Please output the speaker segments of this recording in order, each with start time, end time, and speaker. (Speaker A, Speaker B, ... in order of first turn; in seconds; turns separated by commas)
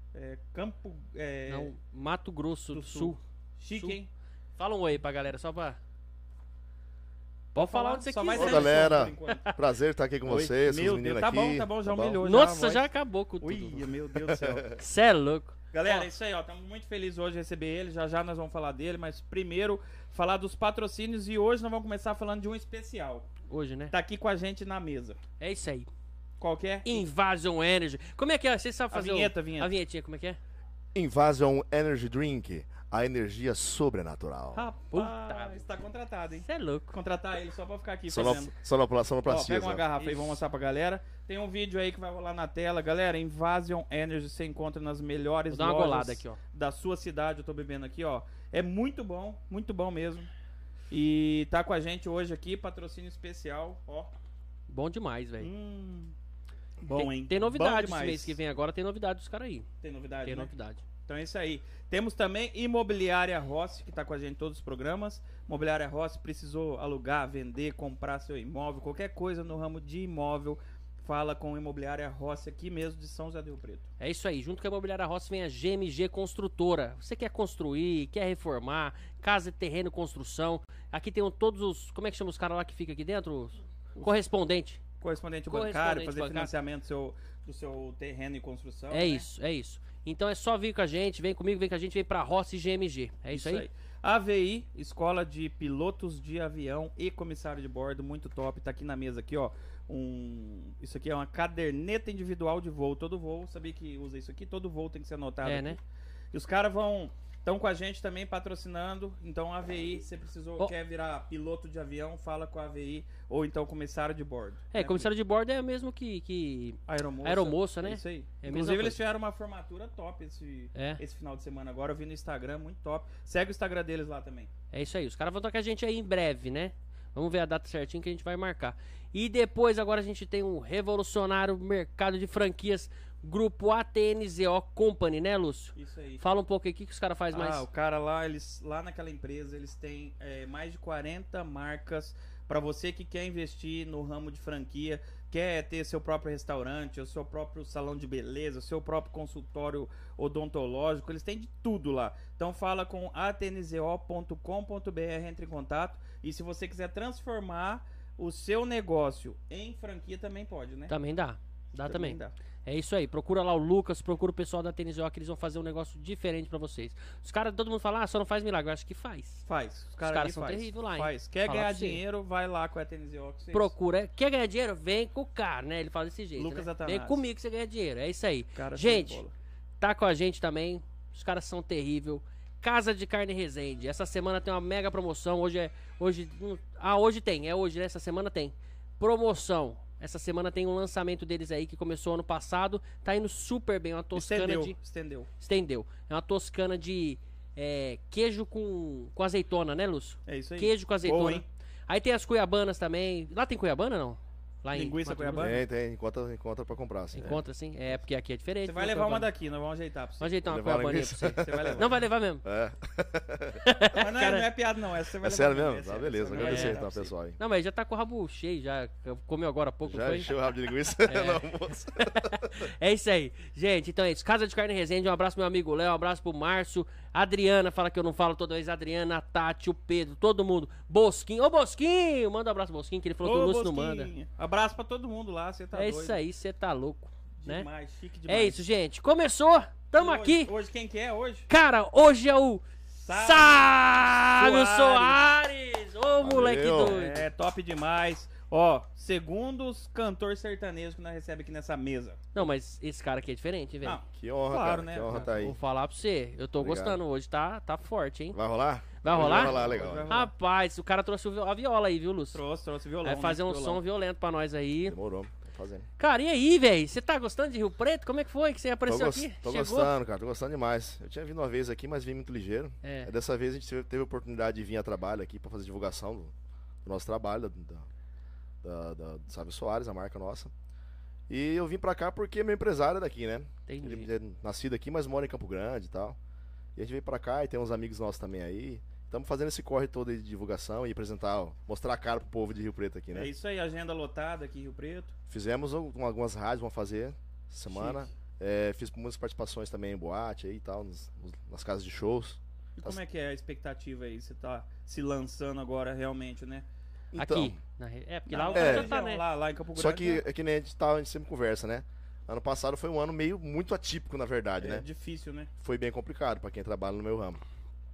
Speaker A: 0.1-1.7, Speaker B: 1.5-3.2, Speaker A: 2.7-4.1, Speaker B: 3.7-4.0, Speaker B: 4.6-5.8, Speaker B: 7.5-9.6, Speaker A: 7.6-9.5, Speaker C: 8.3-12.2, Speaker A: 10.3-12.9, Speaker B: 12.2-13.9, Speaker A: 13.4-14.7, Speaker C: 14.2-14.8, Speaker B: 14.8-16.1, Speaker A: 15.7-23.3, Speaker B: 23.5-23.9, Speaker A: 23.9-25.2, Speaker B: 25.4-25.9, Speaker A: 26.4-27.1, Speaker B: 26.8-30.4, Speaker A: 28.9-29.7, Speaker C: 30.9-34.7, Speaker A: 34.5-38.5, Speaker B: 34.9-35.6, Speaker B: 36.4-37.0, Speaker C: 38.1-39.9, Speaker A: 39.2-50.3, Speaker B: 45.5-46.4, Speaker A: 50.9-54.1, Speaker B: 54.7-55.5, Speaker A: 55.4-56.1, Speaker A: 56.8-58.4, Speaker B: 56.8-59.7, Speaker A: 59.8-60.5, Speaker B: 60.2-60.8, Speaker A: 61.1-73.9, Speaker B: 74.0-84.8, Speaker A: 85.0-89.3, Speaker B: 85.5-86.5, Speaker B: 88.9-93.7, Speaker A: 93.3-105.8, Speaker B: 105.4-105.8, Speaker A: 106.3-115.1, Speaker B: 114.7-119.0, Speaker A: 116.9-124.5, Speaker B: 120.7-121.0, Speaker B: 124.7-137.7, Speaker A: 135.8-136.2, Speaker A: 137.3-160.9, Speaker B: 160.9-169.4, Speaker A: 161.9-162.3, Speaker A: 169.4-173.7, Speaker B: 170.1-172.0, Speaker B: 173.5-179.2, Speaker A: 176.4-177.2, Speaker A: 178.6-179.3, Speaker B: 179.8-194.8, Speaker A: 194.1-195.3, Speaker B: 195.4-205.6, Speaker A: 200.3-201.4, Speaker A: 204.7-205.6, Speaker C: 205.4-207.4, Speaker B: 207.2-209.3, Speaker A: 208.7-210.4, Speaker B: 210.2-212.4, Speaker C: 210.5-211.8, Speaker A: 211.4-212.0, Speaker C: 212.4-213.6, Speaker B: 213.6-214.5, Speaker A: 213.9-217.1, Speaker C: 215.2-217.4, Speaker B: 216.4-216.8, Speaker B: 217.4-220.3, Speaker C: 219.9-222.7, Speaker B: 221.1-221.4, Speaker B: 222.0-234.1, Speaker A: 233.2-236.2, Speaker B: 235.7-237.7, Speaker A: 237.4-238.6, Speaker B: 238.3-240.5, Speaker A: 240.0-241.5, Speaker B: 241.5-247.2, Speaker A: 243.0-245.2, Speaker C: 246.2-247.0, Speaker A: 246.8-252.2, Speaker B: 252.3-254.0, Speaker A: 253.8-255.2, Speaker C: 254.1-255.6, Speaker B: 255.1-258.4, Speaker C: 256.6-257.0, Speaker C: 258.3-260.2, Speaker B: 259.0-262.4, Speaker A: 259.1-260.3, Speaker A: 262.3-263.8, Speaker B: 263.0-264.9, Speaker C: 264.9-265.9, Speaker B: 266.0-269.9, Speaker C: 268.9-276.3, Speaker B: 272.8-273.1, Speaker C: 276.9-277.9, Speaker C: 278.6-280.5, Speaker C: 281.3-286.2, Speaker B: 283.7-284.1, Speaker C: 286.8-293.3, Speaker A: 293.1-295.1, Speaker C: 295.3-303.0, Speaker A: 297.7-298.1, Speaker A: 302.8-306.7, Speaker B: 307.1-309.2, Speaker C: 307.1-307.6, Speaker A: 308.3-310.2, Speaker C: 308.5-308.9, Speaker C: 309.8-314.9, Speaker A: 314.6-315.5, Speaker C: 315.6-317.4